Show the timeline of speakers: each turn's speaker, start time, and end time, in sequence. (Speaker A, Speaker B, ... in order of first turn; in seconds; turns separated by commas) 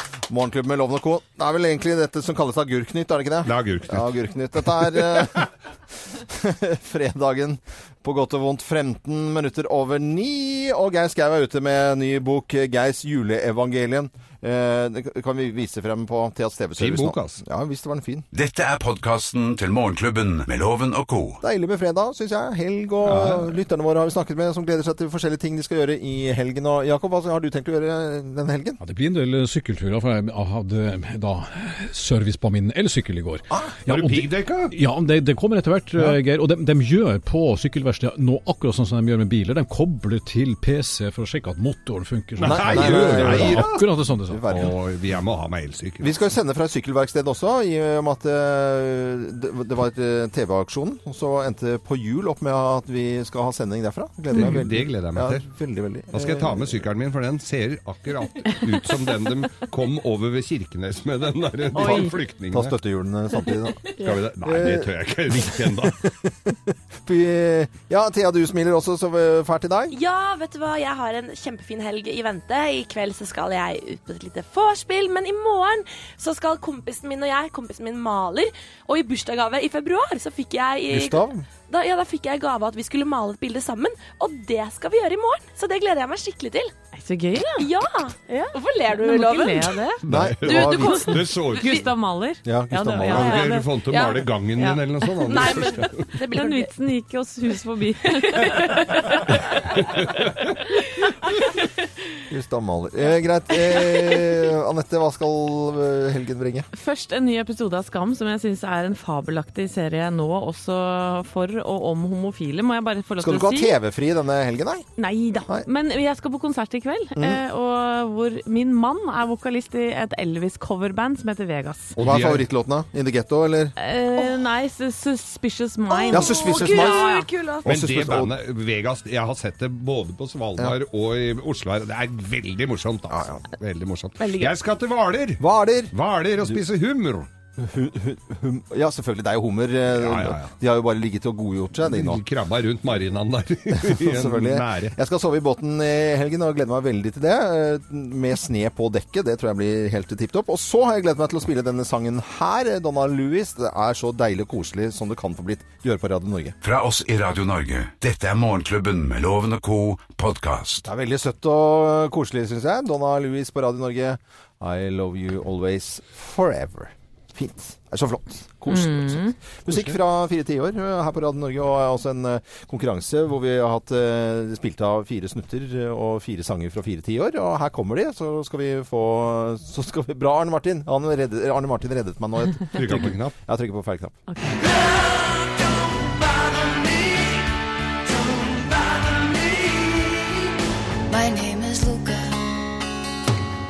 Speaker A: 0.3-5.5, Speaker B: 3.4-4.1, Speaker A: 6.2-18.2, Speaker B: 16.8-17.4, Speaker C: 18.3-21.4, Speaker A: 21.4-28.8, Speaker B: 23.0-23.5, Speaker D: 28.8-44.6, Speaker B: 33.9-34.7, Speaker B: 42.4-43.8, Speaker A: 42.4-44.7, Speaker B: 44.5-46.2, Speaker A: 46.0-56.8, Speaker E: 54.3-54.6, Speaker B: 54.3-55.5, Speaker B: 56.1-62.8, Speaker A: 61.7-70.0, Speaker E: 61.8-62.1, Speaker B: 64.0-66.0, Speaker F: 69.9-86.7, Speaker A: 80.9-81.5, Speaker E: 87.0-87.7, Speaker F: 87.5-91.9, Speaker E: 88.3-90.0, Speaker B: 90.0-91.7, Speaker A: 90.0-91.0, Speaker E: 90.7-93.7, Speaker A: 92.4-93.4, Speaker B: 93.1-96.1, Speaker F: 93.2-96.7, Speaker E: 96.3-99.3, Speaker F: 98.2-98.5, Speaker A: 102.3-106.7, Speaker E: 106.7-113.8, Speaker A: 113.2-114.8, Speaker E: 115.0-122.0, Speaker A: 117.2-117.4, Speaker B: 122.0-122.5, Speaker A: 122.0-123.7, Speaker E: 123.8-127.4, Speaker F: 125.9-127.6, Speaker A: 126.1-127.1, Speaker A: 127.6-128.3, Speaker B: 127.6-137.3, Speaker A: 133.1-133.4, Speaker E: 134.2-134.5, Speaker A: 135.4-135.9, Speaker A: 137.6-142.2, Speaker B: 140.0-140.5, Speaker B: 141.8-144.9, Speaker A: 143.7-156.6, Speaker C: 156.6-160.8, Speaker A: 160.8-184.2, Speaker E: 168.7-169.3, Speaker B: 182.7-183.3, Speaker G: 188.2-188.9, Speaker G: 189.7-190.2, Speaker G: 191.1-192.4